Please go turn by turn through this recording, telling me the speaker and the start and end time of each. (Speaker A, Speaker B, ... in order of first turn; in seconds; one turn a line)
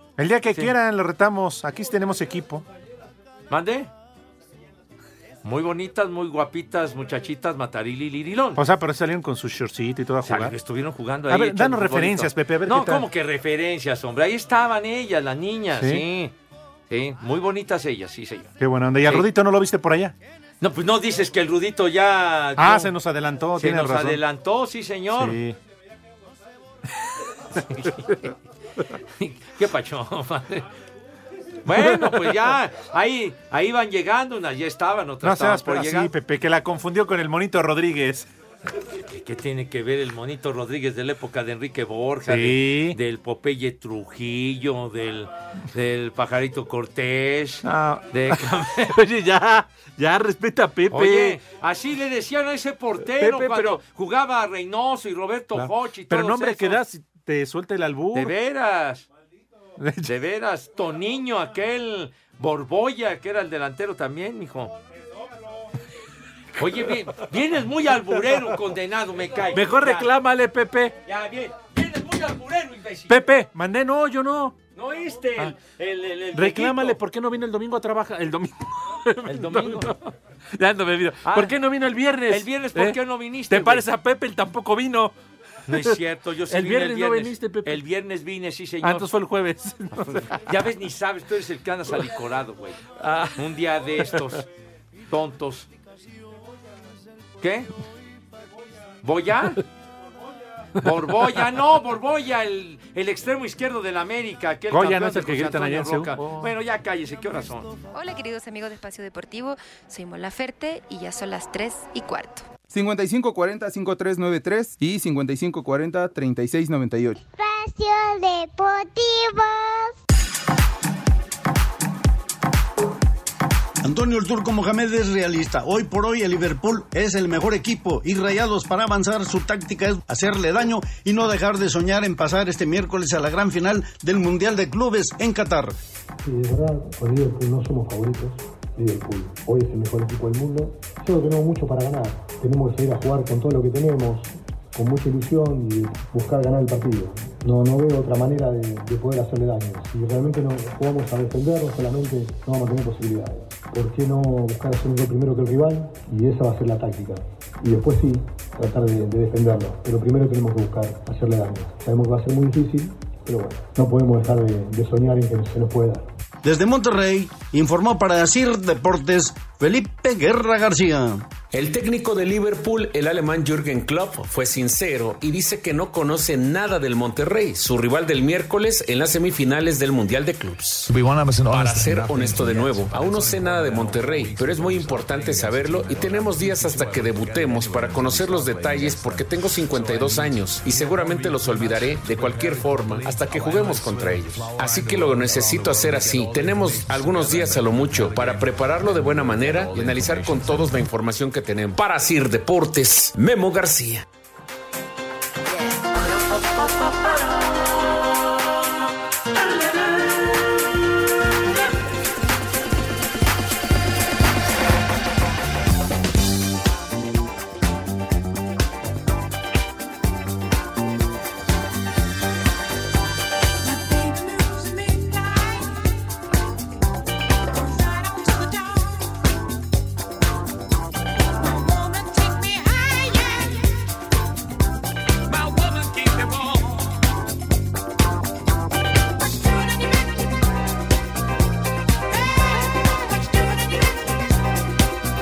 Speaker A: 0.2-2.6
Speaker B: 3.5-3.9
Speaker B: 5.4-8.6
Speaker A: 8.6-10.6
Speaker B: 10.2-16.3
Speaker A: 11.3-13.1
Speaker A: 15.7-16.1
Speaker B: 16.9-18.5
Speaker A: 18.6-20.1
Speaker B: 20.6-22.9
Speaker A: 22.6-24.2
Speaker B: 23.6-25.4
Speaker A: 25.1-25.6
Speaker B: 27.7-28.3
Speaker B: 29.2-30.6
Speaker B: 31.7-36.1
Speaker A: 31.7-32.3
Speaker A: 35.2-38.3
Speaker B: 39.0-49.0
Speaker A: 42.2-43.0
Speaker A: 47.6-51.4
Speaker B: 50.9-56.8
Speaker A: 53.0-53.8
Speaker A: 55.5-58.3
Speaker B: 58.1-59.1
Speaker A: 59.8-60.1
Speaker B: 60.0-64.7
Speaker B: 66.6-70.1
Speaker A: 69.5-71.0
Speaker B: 71.1-73.2
Speaker A: 73.1-74.6
Speaker B: 74.8-77.0
Speaker A: 76.3-79.9
Speaker B: 79.3-80.1
Speaker A: 80.5-83.0
Speaker B: 81.2-81.6
Speaker B: 82.3-83.9
Speaker A: 83.5-85.2
Speaker B: 85.7-89.1
Speaker A: 85.7-86.0
Speaker A: 86.5-87.8
Speaker A: 88.8-90.4
Speaker B: 90.0-94.5
Speaker A: 93.1-93.3
Speaker B: 95.1-95.7
Speaker B: 97.4-97.7
Speaker B: 99.0-99.6
Speaker B: 100.8-107.7
Speaker A: 104.7-106.5
Speaker C: 107.9-112.5
Speaker D: 112.7-117.2
Speaker E: 117.3-120.0
Speaker F: 123.8-135.8
Speaker G: 136.2-166.1
Speaker F: 166.4-171.2
Speaker H: 171.5-180.9
Speaker H: 181.4-204.1
Speaker C: 223.6-225.8
Speaker C: 227.5-229.2
Speaker C: 231.4-233.6
Speaker C: 235.3-237.0
Speaker C: 239.3-240.0
Speaker C: 242.2-242.4
Speaker C: 243.0-243.8